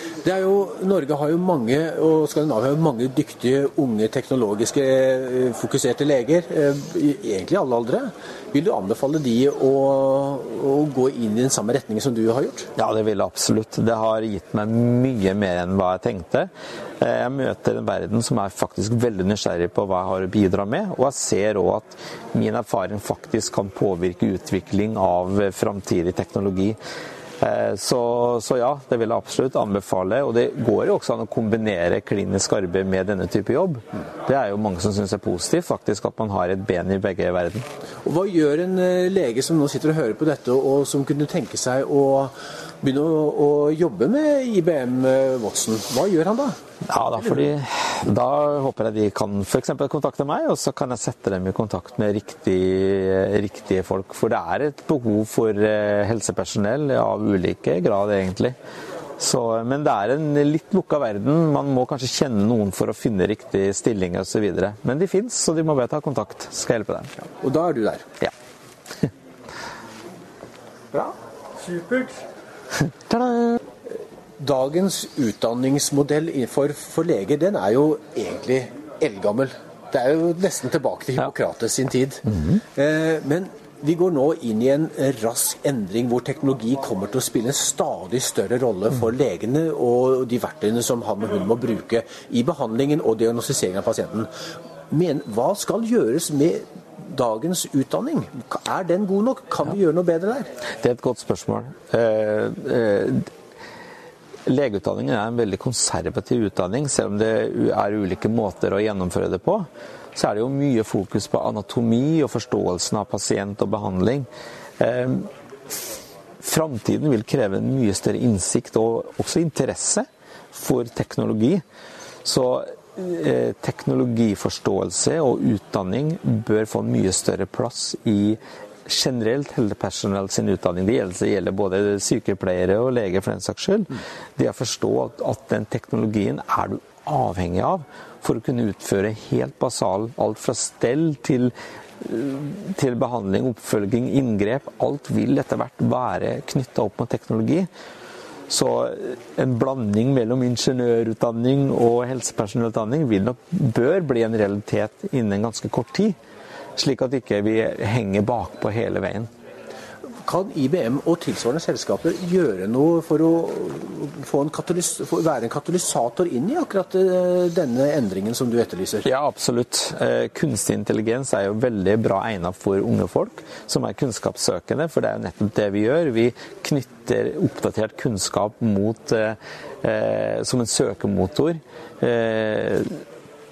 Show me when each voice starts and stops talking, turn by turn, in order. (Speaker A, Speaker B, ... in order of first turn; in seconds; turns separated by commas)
Speaker A: 0.2-12.7, Speaker B: 12.8-26.8, Speaker B: 27.4-37.6, Speaker A: 38.0-46.6, Speaker B: 46.9-58.5, Speaker B: 59.2-67.3, Speaker A: 67.4-68.1, Speaker A: 71.8-72.1, Speaker B: 73.1-73.6, Speaker A: 74.4-94.3, Speaker A: 94.9-100.5, Speaker B: 100.8-103.3, Speaker B: 104.5-114.3, Speaker B: 114.8-115.8, Speaker B: 116.4-121.6, Speaker B: 122.2-147.7, Speaker B: 148.5-156.2, Speaker B: 156.8-159.3, Speaker A: 160.2-169.1, Speaker B: 169.1-183.0